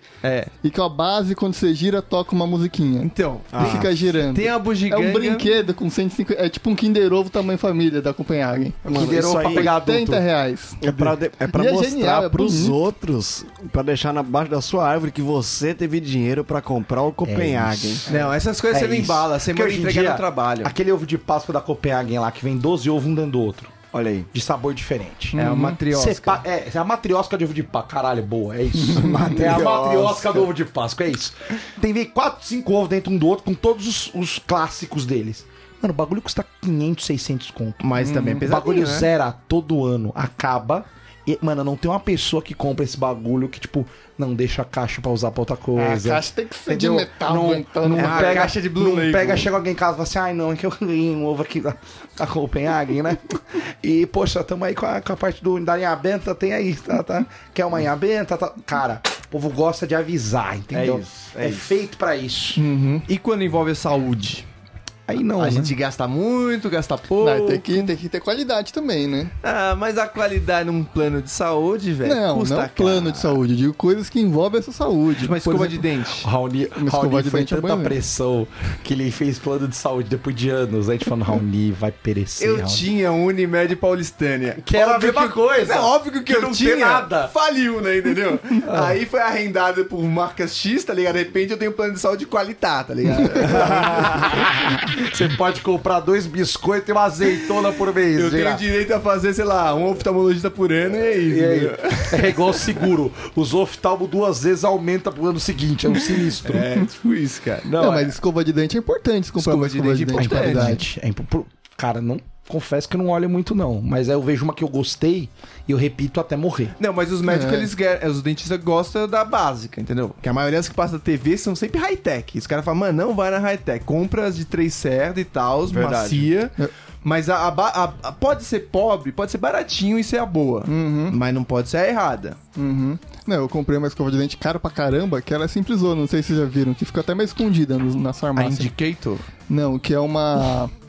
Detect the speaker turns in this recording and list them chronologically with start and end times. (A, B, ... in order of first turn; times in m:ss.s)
0:00.2-0:00.5 A
0:00.6-0:12.8 B
0:03.0-0:05.5 A
0:03.5-0:03.9 C
0:08.8-0:09.7 C
0:08.9-0:10.2 D
0:10.8-0:18.0 C
0:17.2-0:23.7 D
0:18.1-0:20.7 A
0:23.9-0:24.3 C
0:24.3-0:25.4 D
0:25.3-0:25.8 B
0:25.3-0:26.4 A
0:25.9-0:37.8 D
0:28.9-0:29.3 B
0:28.9-0:30.5 C
0:37.8-0:39.1 A
0:38.0-0:38.4 B
0:38.4-1:02.6 D
0:45.8-0:48.5 B
0:47.9-0:49.5 A
1:00.7-1:01.6 C
1:02.6-1:03.0 B
1:03.0-1:04.4 A
1:05.1-1:05.7 D
1:05.4-1:07.9 A
1:07.2-1:09.3 B
1:09.4-1:13.4 A
1:12.0-1:15.8 B
1:15.2-1:16.3 A
1:16.2-1:22.8 D
1:16.8-1:17.9 B
1:22.4-1:34.4 A
1:24.6-1:27.3 D
1:28.7-1:29.0 D
1:33.5-1:38.6 D
1:38.1-1:42.5 A
1:41.3-1:46.7 D
1:46.4-1:48.1 A
1:47.7-1:50.8 B
1:49.4-1:50.8 A
1:50.2-1:56.7 D
1:56.8-2:12.4 A
1:57.2-1:57.7 B
2:05.7-2:06.3 C
2:10.7-2:11.2 B
2:12.6-2:18.7 B
2:18.4-2:19.2 A
2:19.5-2:20.7 B